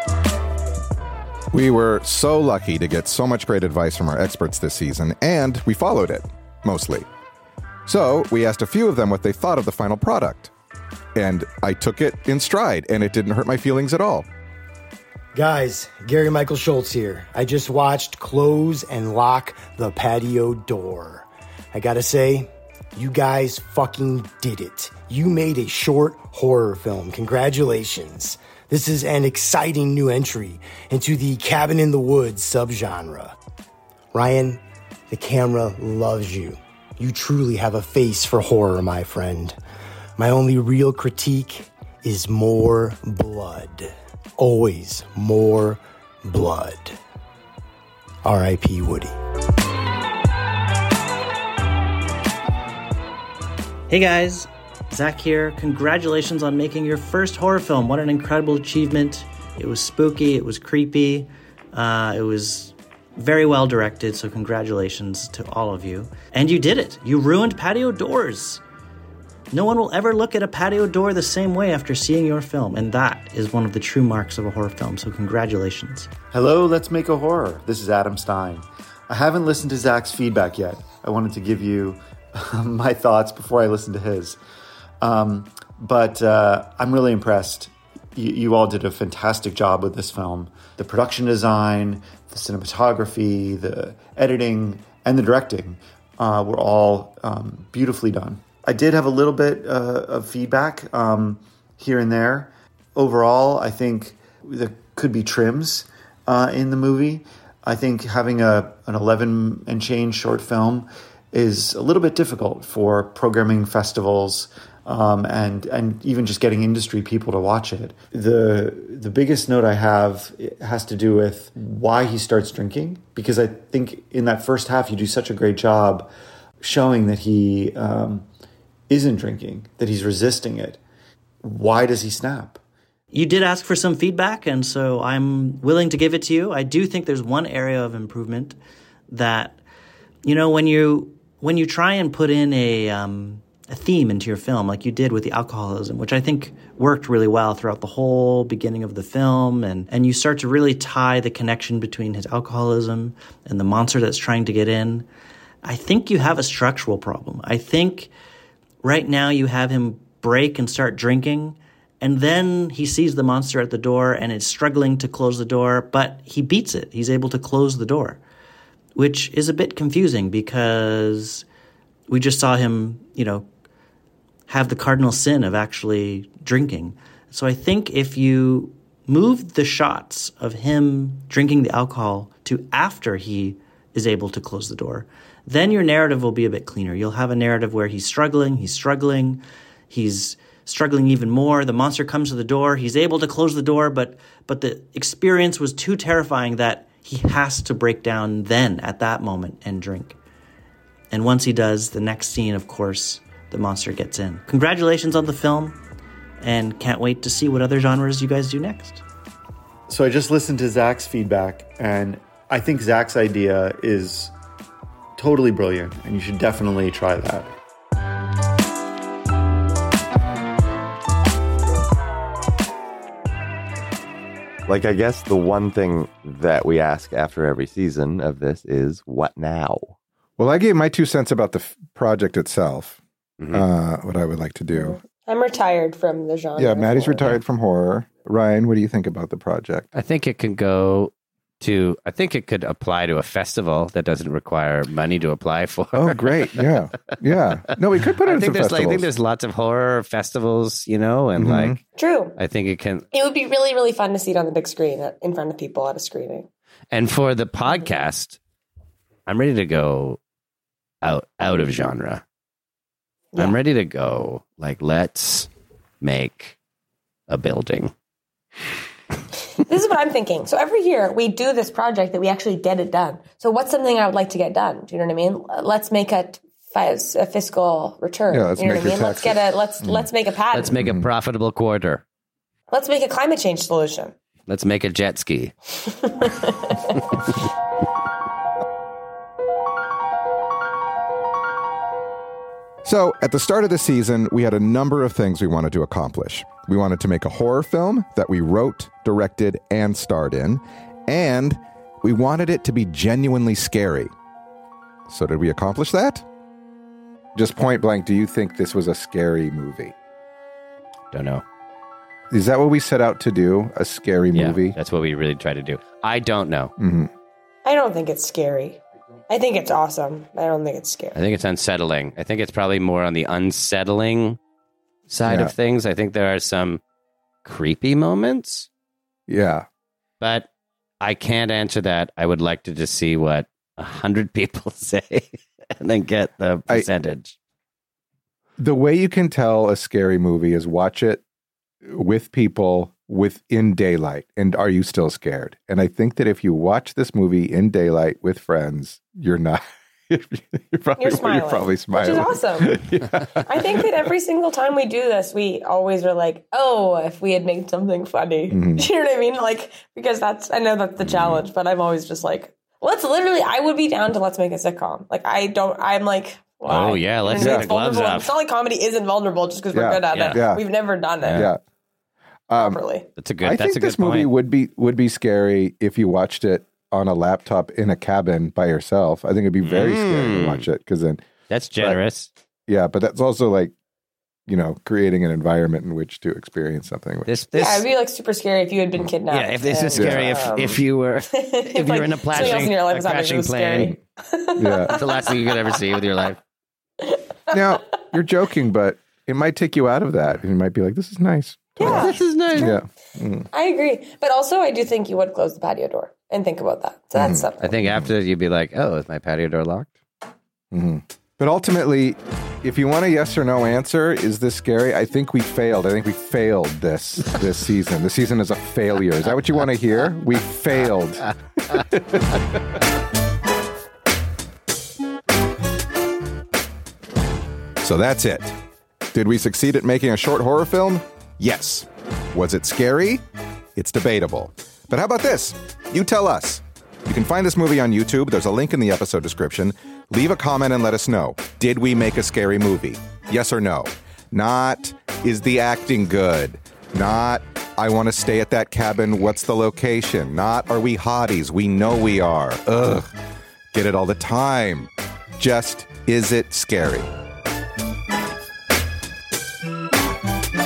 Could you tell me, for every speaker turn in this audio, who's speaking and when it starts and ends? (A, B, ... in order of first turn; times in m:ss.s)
0:01.5-0:07.1 A
0:07.9-0:10.5 A
0:11.2-0:14.3 A
0:15.3-0:33.4 B
0:34.1-0:39.6 B
0:40.2-0:47.0 B
0:48.2-0:49.1 B
0:53.9-1:08.6 C
1:09.5-1:16.1 C
1:16.3-1:24.4 D
1:25.0-2:06.1 D
2:06.6-2:08.3 D
2:08.9-2:10.8 D
2:11.4-2:12.6 D
2:13.1-2:18.6 C
2:19.1-2:19.6 C
2:20.2-2:35.1 C
2:35.6-2:38.1 C
2:38.8-2:48.2 C
2:49.0-2:51.4 C
2:52.1-2:53.5 C
2:54.5-3:20.2 C
3:21.1-3:25.8 C
3:26.4-3:29.0 C
3:29.9-3:34.3 D
3:35.2-3:37.5 D
3:44.7-3:50.0 E
3:50.4-3:53.0 A
3:53.4-3:53.6 F
3:53.5-3:55.0 A
3:54.7-3:57.4 G
3:56.6-3:59.9 A
3:59.9-4:07.2 F
4:05.9-4:09.1 A
4:08.2-4:11.8 F
4:11.4-4:11.8 A
4:12.0-4:12.4 G
4:12.4-4:13.0 F
4:13.1-4:16.5 G
4:16.9-4:18.4 F
4:19.3-4:20.2 F
4:21.0-4:22.2 F
4:23.4-4:25.5 F
4:26.0-4:26.6 F
4:27.3-4:27.9 F
4:29.5-4:40.7 G
4:38.3-4:40.1 A
4:40.5-4:42.0 F
4:40.8-4:41.1 A
4:42.7-4:44.1 G
4:44.5-4:45.5 F
4:45.9-4:47.0 G
4:52.8-5:04.1 A
5:05.1-5:06.3 A
5:07.4-5:10.0 A
5:11.1-5:11.4 F
5:12.3-5:14.8 A
5:14.3-5:16.7 F
5:16.8-5:17.1 A
5:17.6-5:21.2 G
5:21.1-5:24.4 F
5:25.1-5:26.8 F
5:25.2-5:25.5 A
5:27.4-5:28.7 F
5:29.3-5:29.7 A
5:30.2-5:30.5 F
5:31.0-5:37.4 F
5:38.6-5:41.2 A
5:41.8-5:53.9 A
5:51.0-5:52.8 G
5:53.4-6:11.5 G
5:58.5-5:58.8 A
6:01.0-6:01.4 A
6:06.7-6:08.3 F
6:07.4-6:07.7 A
6:09.7-6:10.6 A
6:10.1-6:10.4 F
6:11.2-6:11.5 F
6:11.3-6:11.6 A
6:12.5-6:12.8 A
6:12.6-6:13.1 G
6:13.2-6:14.3 F
6:13.4-6:21.2 A
6:19.6-6:20.7 F
6:21.5-6:22.3 F
6:22.7-6:23.7 A
6:24.5-6:27.3 A
6:27.3-6:27.8 F
6:27.6-6:30.8 G
6:29.3-6:34.0 F
6:30.0-6:30.5 A
6:31.3-6:35.7 G
6:34.6-6:35.0 A
6:35.0-6:36.4 F
6:37.0-6:37.8 G
6:37.5-6:43.5 A
6:41.8-6:42.8 G
6:41.8-6:42.8 F
6:43.5-6:47.8 G
6:47.2-6:48.1 A
6:47.6-6:49.9 F
6:50.7-7:02.6 A
7:07.8-7:08.6 A
7:09.1-7:13.2 A
7:13.8-7:33.1 A
7:33.7-7:37.1 A